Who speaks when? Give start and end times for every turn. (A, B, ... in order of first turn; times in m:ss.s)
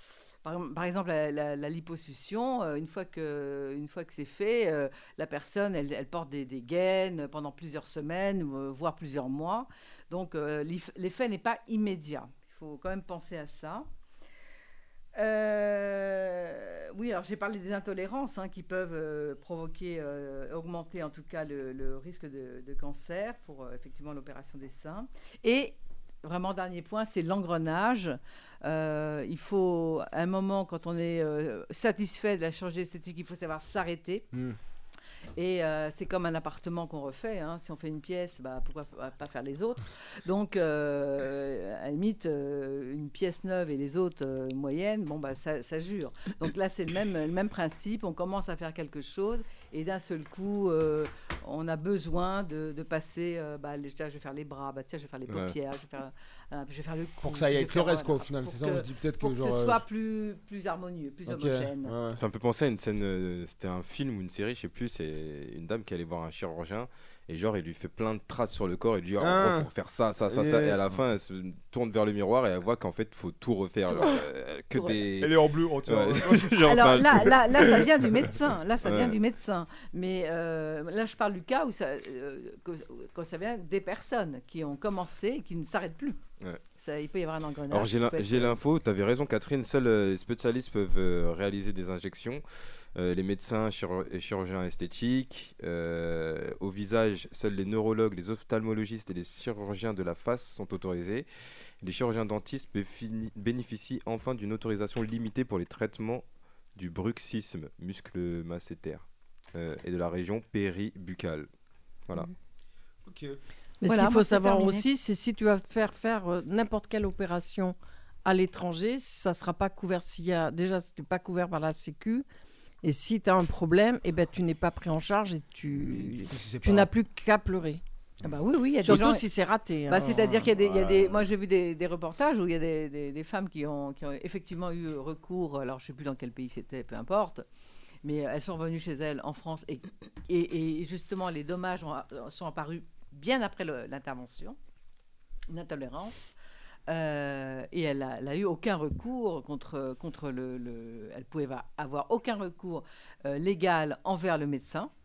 0:00.4-0:13.9 A
0:15.2-0:34.3 A
0:35.4-1:02.0 A
0:55.3-0:55.6 B
0:57.2-0:59.8 C
1:01.3-1:02.2 C
1:02.2-1:18.1 B
1:09.2-1:09.7 C
1:10.3-1:10.8 C
1:13.9-1:14.2 A
1:15.2-1:17.3 C
1:16.7-1:26.2 A
1:18.8-1:19.2 B
1:26.8-1:28.6 A
1:27.7-1:32.4 B
1:33.0-1:41.3 B
1:41.8-1:46.2 B
1:46.8-1:51.5 B
1:53.0-1:53.4 C
1:53.8-2:02.3 D
1:53.8-1:54.9 A
2:02.8-2:07.8 D
2:05.8-2:06.9 C
2:08.2-2:09.3 A
2:08.8-2:10.3 D
2:09.9-2:17.4 A
2:10.1-2:11.3 C
2:18.0-2:24.6 A
2:25.5-2:26.2 A
2:26.9-2:34.9 A